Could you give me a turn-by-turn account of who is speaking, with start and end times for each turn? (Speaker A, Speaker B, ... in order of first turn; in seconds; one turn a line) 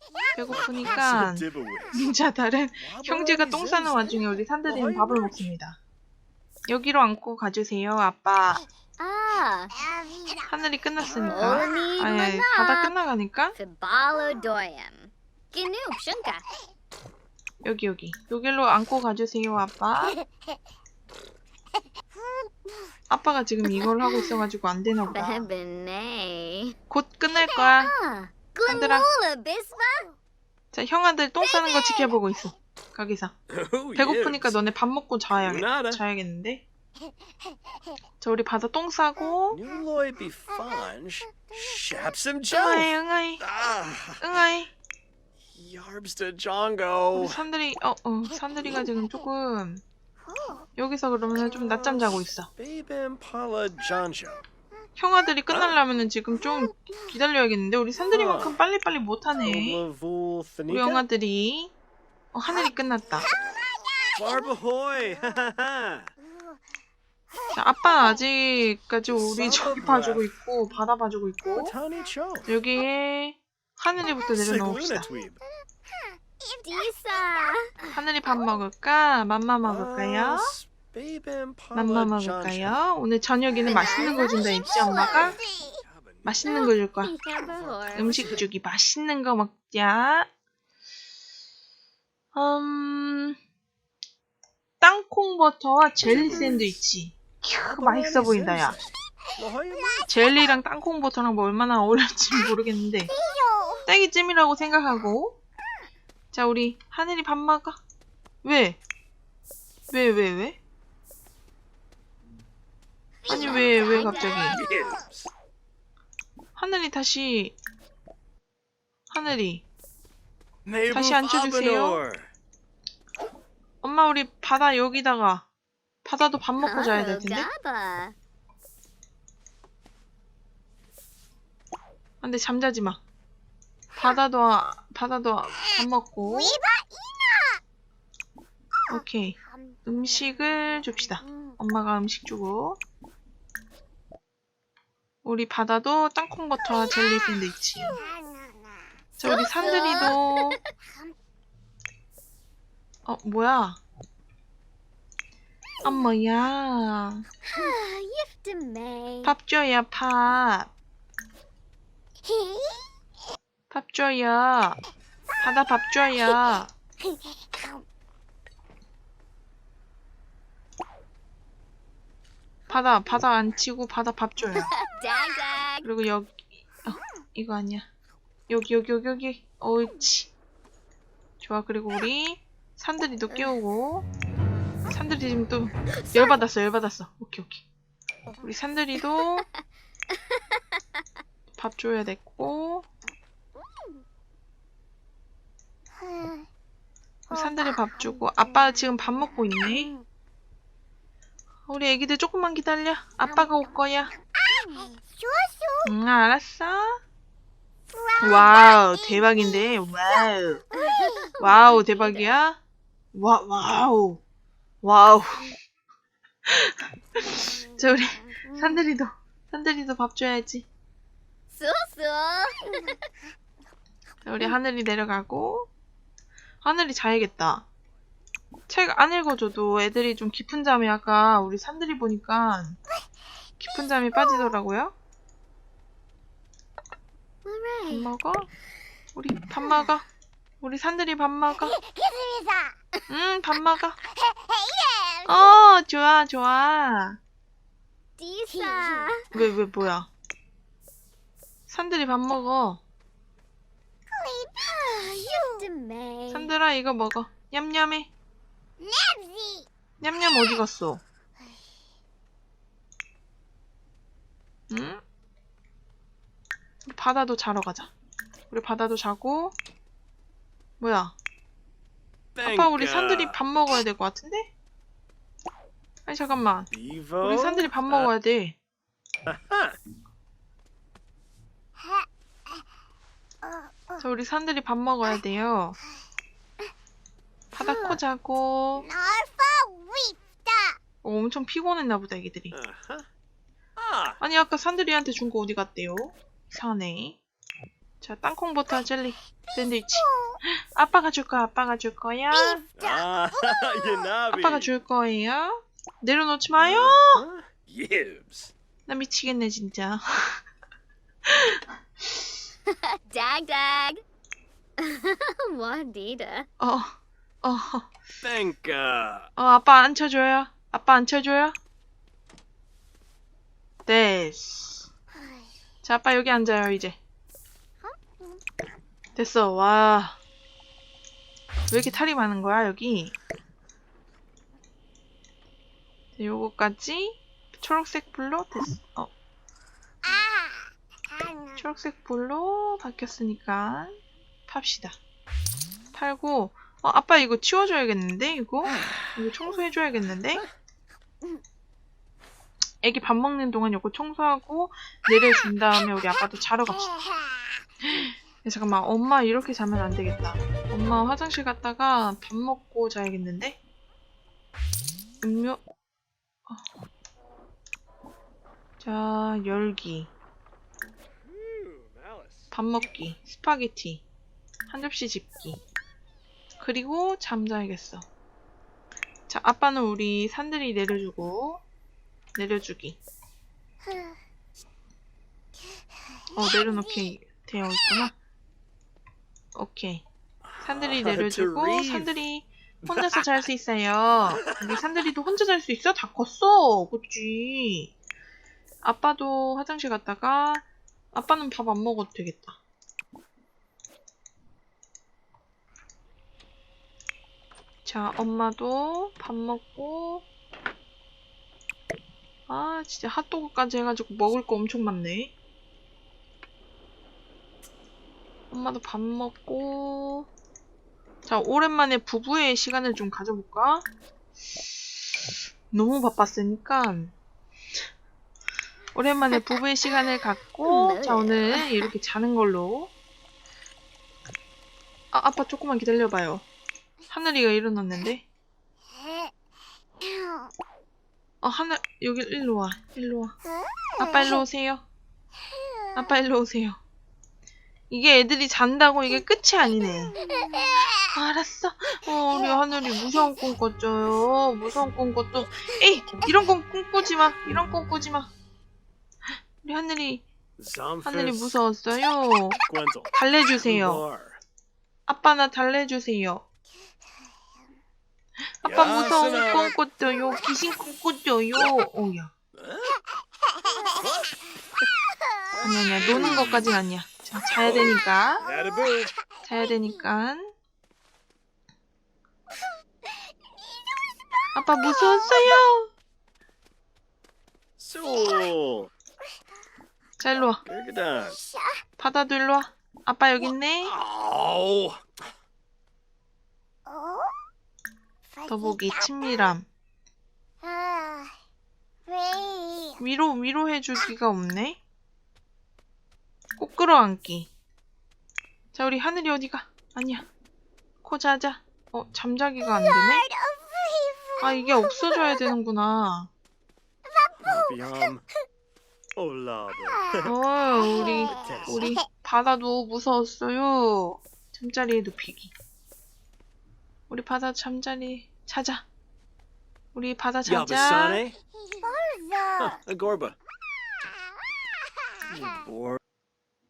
Speaker A: 0.3-5.8
Speaker B: 0.5-2.0
Speaker B: 2.8-5.4
Speaker A: 6.7-8.6
Speaker C: 9.0-10.4
Speaker A: 10.5-13.6
Speaker C: 11.3-12.9
Speaker C: 13.6-16.4
Speaker A: 17.6-20.1
Speaker A: 23.1-25.5
Speaker C: 23.6-24.4
Speaker C: 25.1-26.8
Speaker A: 26.9-27.9
Speaker C: 27.4-30.1
Speaker A: 28.6-29.1
Speaker A: 30.7-33.3
Speaker C: 31.4-32.1
Speaker B: 33.5-34.6
Speaker A: 33.9-36.6
Speaker B: 35.3-36.0
Speaker A: 38.2-39.6
Speaker B: 39.5-44.3
Speaker A: 42.5-43.4
Speaker A: 44.2-44.7
Speaker B: 45.5-47.4
Speaker A: 47.1-49.8
Speaker A: 50.8-52.5
Speaker B: 51.5-54.4
Speaker A: 55.0-59.8
Speaker B: 55.5-55.8
Speaker B: 58.1-58.5
Speaker B: 59.4-61.0
Speaker A: 60.7-61.7
Speaker A: 62.3-63.3
Speaker B: 64.1-66.1
Speaker A: 67.5-71.7
Speaker B: 69.1-70.2
Speaker B: 71.5-72.5
Speaker A: 72.5-75.0
Speaker B: 74.4-75.4
Speaker C: 76.4-77.9
Speaker A: 77.9-80.5
Speaker B: 79.6-82.8
Speaker A: 81.7-85.4
Speaker C: 83.6-85.8
Speaker B: 84.9-86.7
Speaker A: 86.2-87.1
Speaker C: 86.4-88.4
Speaker B: 87.4-88.4
Speaker A: 87.9-90.3
Speaker A: 92.3-93.3
Speaker A: 94.8-98.8
Speaker B: 96.0-96.7
Speaker B: 97.5-100.1
Speaker A: 100.1-103.1
Speaker C: 103.1-103.9
Speaker A: 103.8-105.4
Speaker A: 106.3-107.8
Speaker A: 108.4-108.8
Speaker A: 109.9-110.6
Speaker C: 113.2-114.9
Speaker A: 113.2-114.6
Speaker B: 113.4-115.3
Speaker A: 116.5-117.6
Speaker A: 119.1-119.6
Speaker B: 120.6-122.3
Speaker A: 120.9-122.0
Speaker A: 123.8-125.5
Speaker A: 126.0-127.5
Speaker C: 126.6-128.1
Speaker A: 132.2-133.0
Speaker A: 134.0-136.6
Speaker C: 136.2-137.6
Speaker A: 138.9-142.8
Speaker C: 141.2-141.6
Speaker A: 145.2-148.0
Speaker C: 147.9-148.5
Speaker A: 149.2-150.6
Speaker C: 149.2-150.2
Speaker C: 150.8-151.1
Speaker A: 153.1-153.8
Speaker C: 155.8-156.1
Speaker A: 155.8-157.2
Speaker C: 157.5-159.3
Speaker A: 159.2-160.7
Speaker C: 162.3-162.8
Speaker A: 163.7-164.8
Speaker A: 165.4-166.7
Speaker C: 167.0-167.8
Speaker A: 172.7-174.7
Speaker C: 174.5-175.8
Speaker A: 175.8-177.9
Speaker A: 178.5-180.3
Speaker A: 181.4-184.1
Speaker A: 184.9-187.6
Speaker A: 188.4-189.4
Speaker A: 191.6-192.9
Speaker C: 196.1-196.4
Speaker A: 197.3-199.9
Speaker C: 197.3-198.8
Speaker C: 199.5-200.0
Speaker A: 201.7-204.1
Speaker C: 203.2-203.5
Speaker C: 204.4-205.9
Speaker A: 205.8-207.0
Speaker C: 207.9-208.9
Speaker A: 208.2-210.6
Speaker C: 210.7-212.3
Speaker A: 211.4-212.6
Speaker A: 213.1-214.2
Speaker A: 214.8-215.4
Speaker A: 216.5-220.7
Speaker C: 217.4-218.8
Speaker C: 221.5-223.0
Speaker A: 224.2-225.7
Speaker A: 226.6-227.7
Speaker A: 228.7-232.8
Speaker A: 233.6-234.9
Speaker C: 237.4-238.1
Speaker A: 237.9-238.5
Speaker A: 239.1-240.1
Speaker A: 240.6-241.8
Speaker C: 242.0-242.7
Speaker A: 243.1-244.0
Speaker C: 244.6-245.5
Speaker A: 245.2-247.2
Speaker C: 248.2-249.4
Speaker A: 248.9-250.1
Speaker A: 251.7-252.8
Speaker C: 254.1-256.5
Speaker A: 256.3-258.1
Speaker C: 258.8-259.6
Speaker A: 260.0-261.0
Speaker A: 264.7-265.0
Speaker A: 266.8-267.9
Speaker A: 268.5-269.5
Speaker A: 270.8-271.1
Speaker B: 272.3-273.4
Speaker A: 272.4-274.5
Speaker A: 276.1-278.6
Speaker B: 276.7-278.1
Speaker B: 279.2-279.7
Speaker C: 283.4-284.0
Speaker A: 284.0-285.8
Speaker A: 287.5-288.9
Speaker C: 287.6-288.0
Speaker C: 288.8-290.8
Speaker A: 291.0-292.5
Speaker B: 292.5-293.1
Speaker B: 293.8-294.2
Speaker A: 294.2-297.2
Speaker A: 298.0-302.6
Speaker C: 299.9-300.3
Speaker C: 302.3-303.7
Speaker B: 302.8-304.7
Speaker A: 304.3-307.2
Speaker B: 306.6-308.5
Speaker A: 308.9-310.4
Speaker A: 311.3-311.6
Speaker C: 313.1-314.0
Speaker C: 314.8-316.5
Speaker A: 316.6-317.9
Speaker B: 318.2-319.3
Speaker A: 319.4-321.6
Speaker A: 323.9-324.9
Speaker C: 325.1-325.5
Speaker A: 325.8-327.0
Speaker C: 327.8-328.4
Speaker A: 329.1-330.2
Speaker A: 331.7-333.1
Speaker A: 336.2-339.1
Speaker C: 340.0-341.6
Speaker A: 341.6-345.0
Speaker A: 345.9-350.4
Speaker A: 352.8-356.9
Speaker A: 357.8-363.6
Speaker A: 365.2-365.6
Speaker A: 368.8-370.1
Speaker B: 371.2-372.5
Speaker A: 372.5-374.0
Speaker A: 374.7-375.6
Speaker A: 376.6-378.1
Speaker A: 379.3-381.6
Speaker A: 382.3-383.0
Speaker A: 386.3-388.1
Speaker C: 386.4-386.8
Speaker A: 389.5-390.0
Speaker B: 390.4-392.1
Speaker A: 390.6-397.9
Speaker B: 392.8-393.4
Speaker B: 394.2-394.8
Speaker A: 398.8-402.6
Speaker A: 407.8-410.2
Speaker A: 412.5-415.3
Speaker A: 418.5-420.3
Speaker A: 421.2-423.9
Speaker A: 425.7-427.1
Speaker A: 428.9-432.9
Speaker C: 430.6-431.9
Speaker A: 435.1-436.4
Speaker A: 437.1-438.2
Speaker A: 441.4-443.4
Speaker A: 444.0-444.8
Speaker A: 445.9-446.8
Speaker A: 447.9-450.1
Speaker C: 450.2-450.9
Speaker A: 451.1-458.3
Speaker A: 459.6-460.2
Speaker B: 460.6-461.6
Speaker A: 461.0-462.6
Speaker B: 462.7-464.4
Speaker A: 463.1-464.0
Speaker A: 465.1-466.4
Speaker A: 468.6-472.3
Speaker B: 468.6-469.8
Speaker B: 472.5-472.9
Speaker B: 474.0-474.3
Speaker B: 475.6-476.8
Speaker A: 475.6-478.4
Speaker B: 477.6-479.1
Speaker A: 479.4-480.5
Speaker A: 484.5-485.9
Speaker B: 487.8-488.9
Speaker A: 490.2-490.6
Speaker B: 490.6-491.4
Speaker A: 492.0-493.9
Speaker B: 493.8-495.2
Speaker C: 496.9-497.2
Speaker C: 498.4-498.9
Speaker A: 498.5-499.7
Speaker C: 500.6-501.3
Speaker C: 502.1-503.0
Speaker A: 503.0-504.8
Speaker A: 506.6-507.5
Speaker A: 508.7-510.3
Speaker A: 511.0-513.2
Speaker C: 512.9-515.3
Speaker A: 514.4-516.3
Speaker C: 517.0-517.8
Speaker B: 517.4-518.2
Speaker B: 519.1-520.3
Speaker A: 520.2-525.5
Speaker C: 520.9-522.0
Speaker B: 521.2-521.9
Speaker A: 527.1-528.8
Speaker A: 529.9-531.2
Speaker B: 530.4-531.4
Speaker C: 531.7-532.8
Speaker B: 532.6-533.4
Speaker B: 535.3-536.0